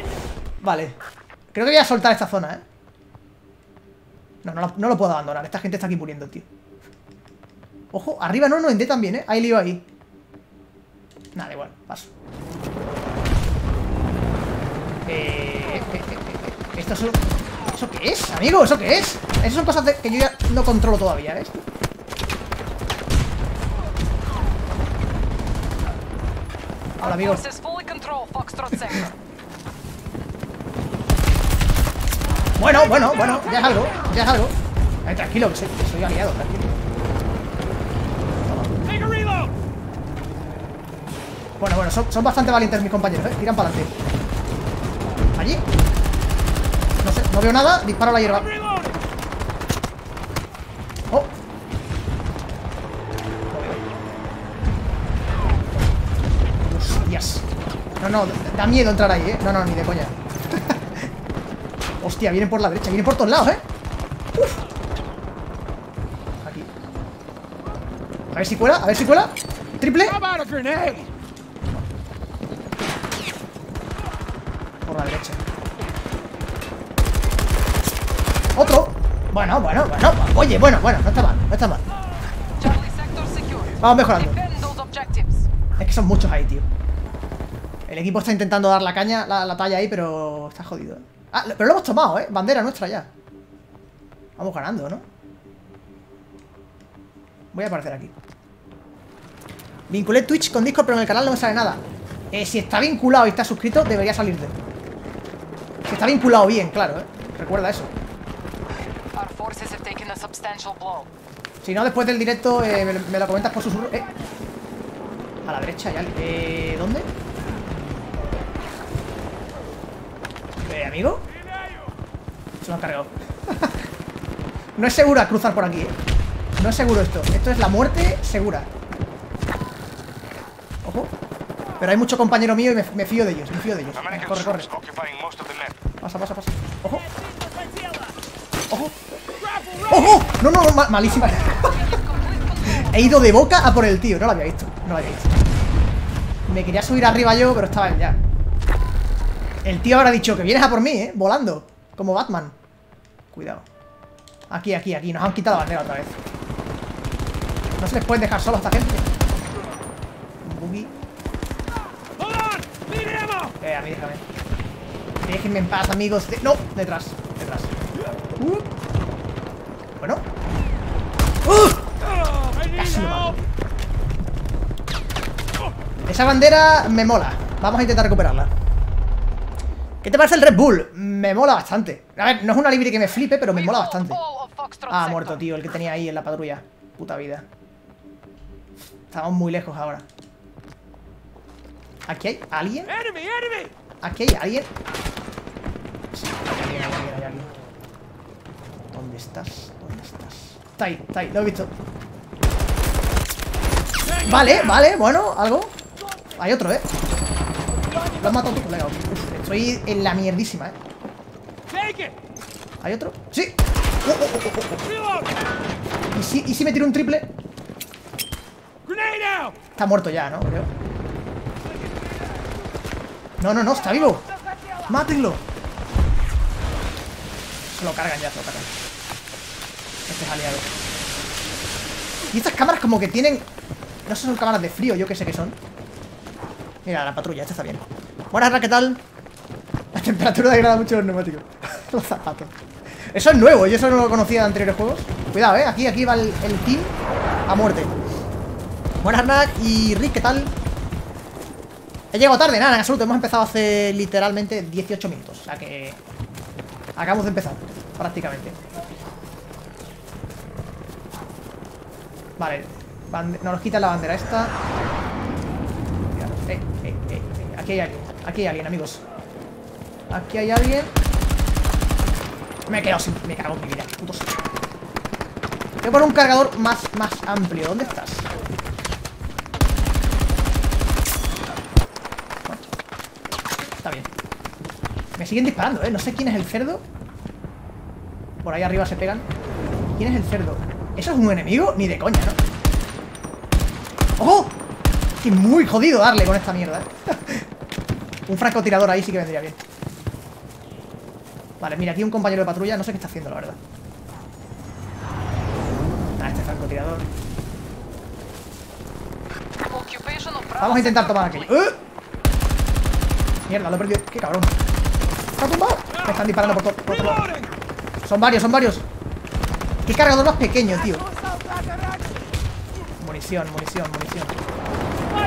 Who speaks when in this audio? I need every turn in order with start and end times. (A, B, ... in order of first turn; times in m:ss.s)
0:00.6-0:01.0 A
0:01.5-0:02.6 A
0:04.4-0:06.5 A
0:07.9-0:09.8 A
0:11.3-0:12.1 A
0:15.0-0:17.2 A
0:17.7-0:21.6 A
0:27.0-0:27.4 A
0:27.0-0:29.1 B
0:32.6-0:36.7 A
0:38.4-0:38.8 A
0:38.9-0:39.5 C
0:41.6-0:43.9 A
0:45.3-0:45.6 A
0:47.0-0:48.5 A
0:53.5-0:53.8 A
0:56.6-0:57.4 A
0:58.0-1:01.1 A
1:02.0-1:03.6 A
1:06.4-1:06.7 A
1:08.3-1:10.2 A
1:10.2-1:11.1 C
1:14.8-1:15.4 A
1:18.5-1:21.8 A
1:22.6-1:25.5 B
1:23.8-1:24.4 A
1:25.8-1:26.6 A
1:27.9-1:33.1 A
1:34.4-1:35.0 A
1:37.5-1:38.1 A
1:39.9-1:44.5 A
1:45.8-1:47.9 A
1:49.1-1:51.1 B
1:51.6-1:54.0 A
1:55.4-1:57.1 A
2:00.6-2:01.2 A
2:02.6-2:03.8 A
2:04.8-2:05.9 A
2:06.6-2:08.7 A
2:10.8-2:11.1 A
2:11.8-2:14.7 A
2:13.9-2:15.8 C
2:16.0-2:17.0 A
2:18.7-2:18.9 A
2:19.8-2:21.8 A
2:21.5-2:23.4 B
2:22.7-2:25.4 A
2:26.5-2:28.2 A
2:29.6-2:32.5 A
2:33.3-2:33.6 A
2:34.5-2:36.3 A
2:37.8-2:39.1 A
2:40.4-2:40.9 A
2:42.3-2:43.4 C
2:43.6-2:44.2 A
2:45.2-2:47.8 A
2:48.4-2:48.7 A
2:50.0-2:50.2 A
2:51.4-2:53.5 A
2:56.0-2:58.5 A
3:00.0-3:04.2 A
3:03.5-3:05.5 B
3:04.9-3:07.4 A
3:09.1-3:10.0 A
3:12.1-3:13.0 A
3:13.1-3:13.7 C
3:14.0-3:14.7 A
3:16.1-3:17.5 A
3:18.9-3:21.7 A
3:24.1-3:25.7 A
3:26.4-3:26.9 A
3:28.1-3:30.8 A
3:31.8-3:32.1 C
3:32.8-3:34.9 A
3:36.1-3:37.3 A
3:38.9-3:39.5 C
3:39.7-3:40.7 A
3:43.4-3:44.2 A
3:44.9-3:45.4 A
3:47.7-3:48.7 A
3:50.1-3:50.7 A
3:52.3-3:53.5 A
3:54.0-3:55.6 A
3:56.8-3:59.0 A
3:59.9-4:06.9 A
4:07.5-4:07.9 A
4:09.0-4:10.5 A
4:12.1-4:16.0 A
4:17.0-4:18.6 A
4:22.4-4:24.5 A
4:26.1-4:29.0 A
4:30.1-4:30.9 A
4:32.7-4:34.3 A
4:35.8-4:38.3 A
4:43.8-4:44.1 A
4:45.2-4:46.8 A
4:48.4-4:49.3 A
4:50.0-4:52.4 A
4:54.2-4:54.6 A
4:55.2-4:57.5 A
4:58.3-4:59.6 A
5:01.6-5:03.6 A
5:06.2-5:07.1 A
5:09.7-5:11.5 B
5:10.6-5:11.8 A
5:13.5-5:14.5 A
5:15.4-5:17.3 A
5:18.0-5:18.8 A
5:19.8-5:21.1 A
5:23.0-5:24.4 A